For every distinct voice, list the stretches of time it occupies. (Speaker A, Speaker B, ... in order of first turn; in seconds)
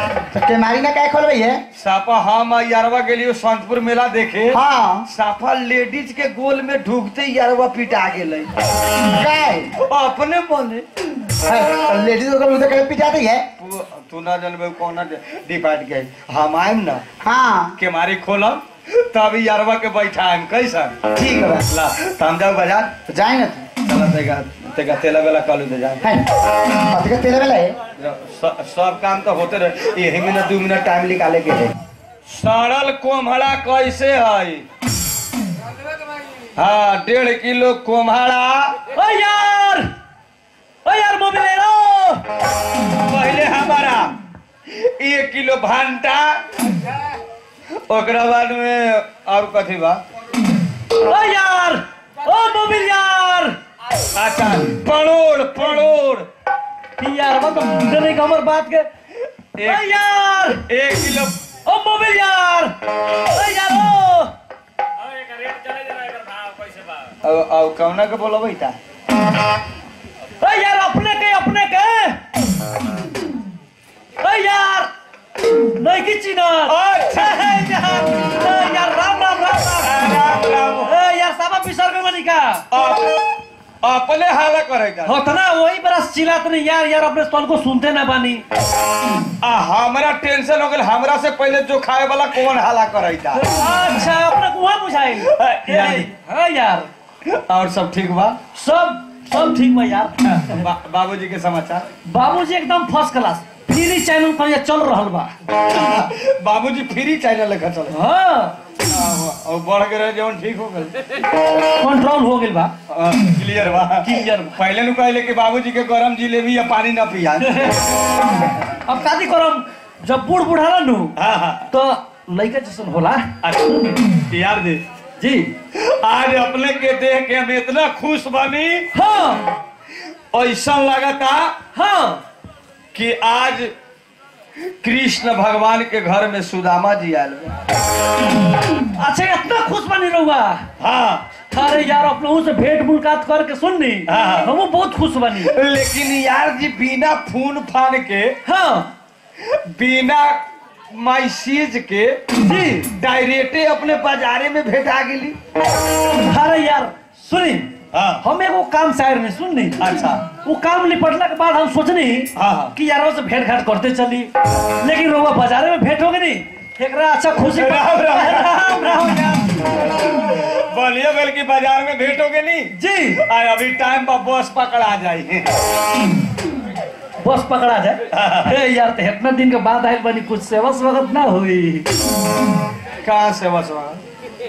Speaker A: 0.3-1.6, 4.5-5.1, 9.0-9.7, 11.4-13.5, 17.2-17.8, 21.1-21.7, 23.1-23.7, 26.0-27.8
Speaker B: 1.8-8.5, 9.8-10.9, 13.6-17.0, 17.8-21.0, 21.7-23.0, 23.8-26.1, 28.0-31.7, 32.3-34.6, 36.6-38.8, 42.9-44.1, 44.7-46.5, 47.9-50.0, 54.1-56.3, 59.6-59.9, 60.5-61.4, 65.1-68.8, 76.7-77.8, 79.8-81.0, 82.7-83.2, 83.8-85.2, 89.4-93.5, 95.2-96.1, 97.2-98.4, 100.3-101.9, 105.6-108.0, 108.8-111.0, 112.9-117.7, 121.2-121.7, 123.4-124.8, 125.7-128.9, 130.3-131.6, 132.9-133.7, 134.7-137.6, 140.8-141.2, 144.1-144.5, 145.4-148.4, 149.4-152.2, 152.9-155.4, 157.9-158.2, 159.8-160.3, 162.3-162.8, 167.4-175.5, 178.1-178.6, 183.0-184.0
Speaker C: 38.9-39.9, 40.9-42.2, 51.0-53.6, 57.0-58.9, 59.6-60.6, 61.7-64.3, 70.4-72.2, 74.2-74.9, 75.6-80.2, 80.8-82.7, 85.1-88.5, 93.4-96.9, 98.5-100.7, 102.1-105.3, 107.9-108.6, 111.7-112.7, 114.0-114.6, 117.4-117.9, 118.8-121.2, 121.7-123.3, 125.2-125.5, 128.9-129.5, 131.8-132.2, 139.0-140.7, 141.5-145.5, 148.4-148.9, 152.4-152.9, 156.2-169.6, 172.8-173.2, 177.2-181.9